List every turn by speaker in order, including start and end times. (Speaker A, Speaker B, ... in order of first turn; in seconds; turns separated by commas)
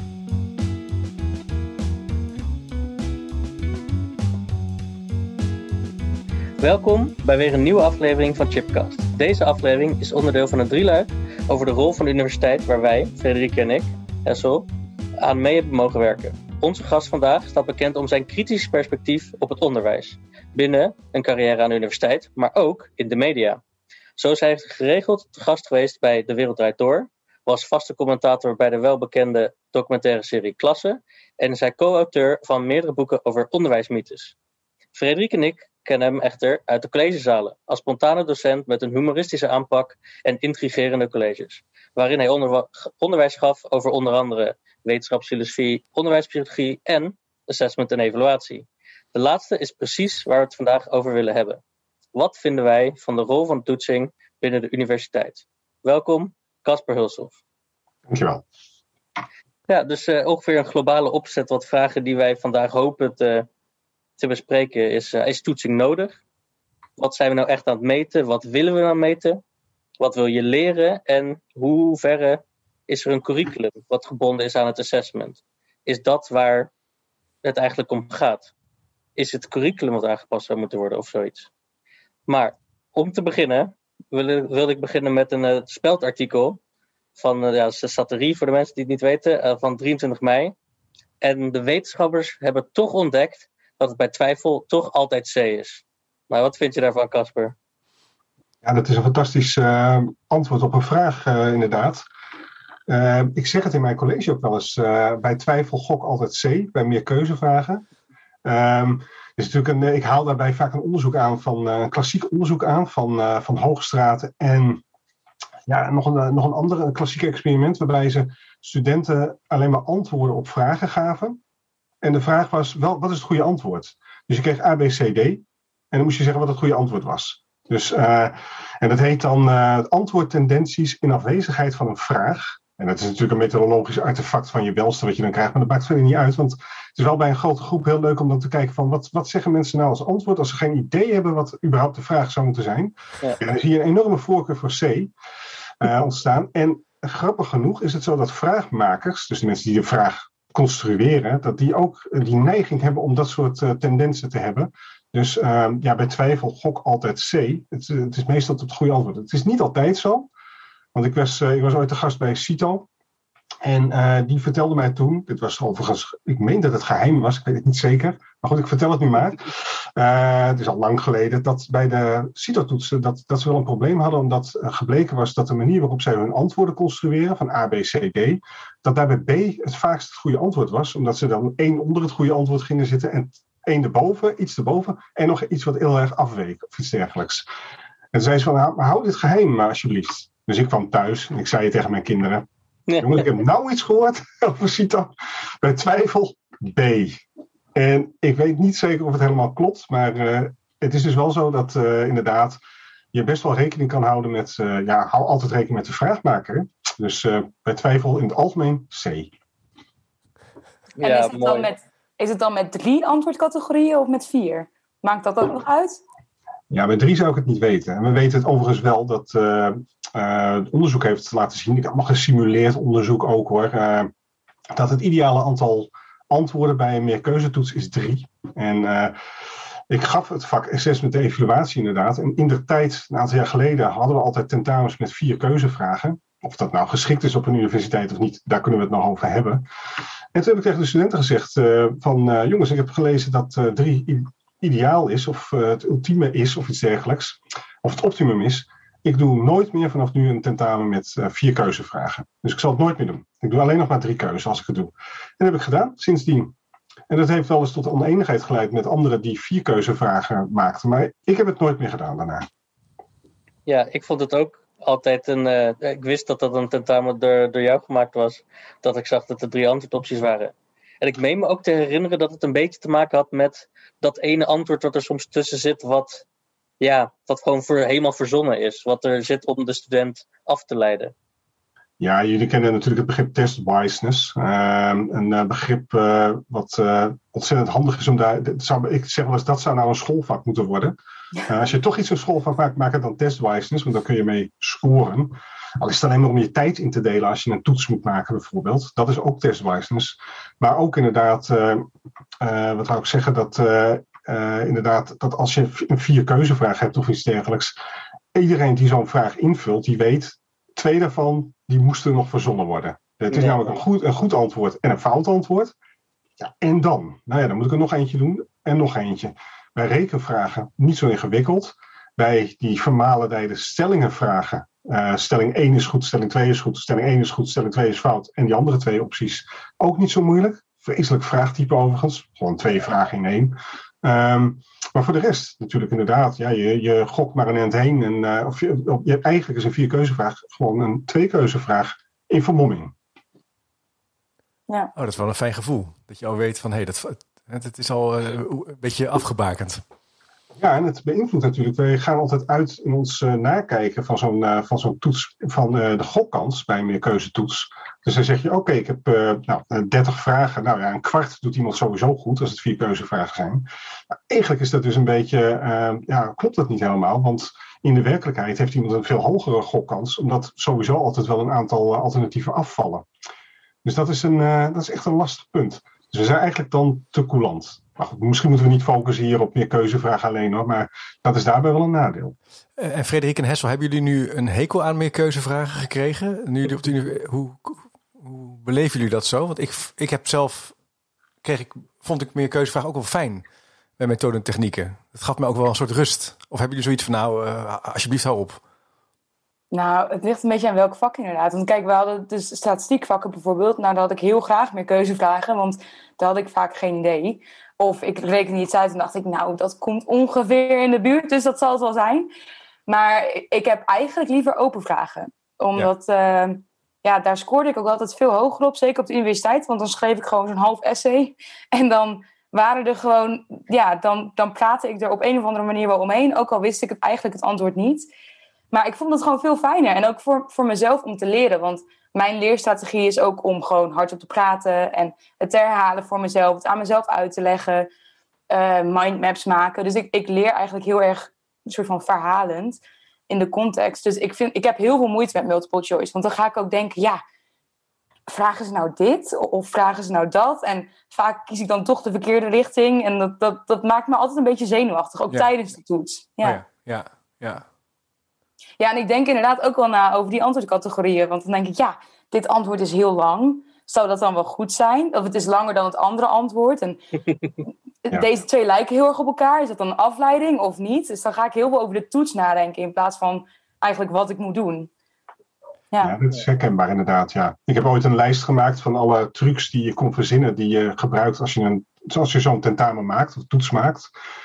Speaker A: 6.6-14.7, Speaker A: 15.2-23.6, Speaker A: 24.2-34.3, Speaker A: 34.9-51.6, Speaker A: 52.1-57.4, Speaker B: 58.1-58.4, Speaker A: 59.7-63.5, Speaker A: 64.2-66.2, Speaker A: 67.0-69.4, Speaker A: 70.0-76.7, Speaker A: 77.4-78.5, Speaker A: 79.2-81.5, Speaker A: 82.3-86.6, Speaker A: 87.2-90.5, Speaker A: 91.2-97.5, Speaker B: 98.6-102.0, Speaker B: 102.9-107.8, Speaker B: 108.4-114.8, Speaker B: 115.7-121.4, Speaker B: 122.0-145.1, Speaker B: 145.8-160.3, Speaker B: 160.9-162.9, Speaker B: 163.6-187.4, Speaker B: 188.1-192.4, Speaker A: 192.9-193.2, Speaker B: 193.0-197.2, Speaker B: 197.7-202.6, Speaker B: 203.1-209.3, Speaker A: 211.0-211.7, Speaker C: 211.0-216.0, Speaker B: 216.7-224.1, Speaker B: 224.7-229.2, Speaker B: 229.9-239.6, Speaker B: 240.3-256.5, Speaker B: 257.1-262.4, Speaker A: 263.6-276.2, Speaker A: 276.8-281.1, Speaker B: 282.0-290.9, Speaker B: 291.5-301.9, Speaker B: 302.4-307.7, Speaker B: 308.3-315.7, Speaker A: 313.3-313.7, Speaker B: 316.4-342.9, Speaker D: 344.9-349.8, Speaker B: 350.6-363.6, Speaker B: 364.3-373.0, Speaker B: 373.8-382.3, Speaker D: 382.8-390.7, Speaker D: 391.4-393.4, Speaker D: 394.0-398.6, Speaker C: 399.7-412.3, Speaker C: 412.9-428.1, Speaker C: 428.7-437.9, Speaker C: 438.5-447.2, Speaker C: 448.3-456.6, Speaker D: 456.4-457.6, Speaker C: 458.8-467.0, Speaker C: 468.0-474.9, Speaker B: 476.0-484.1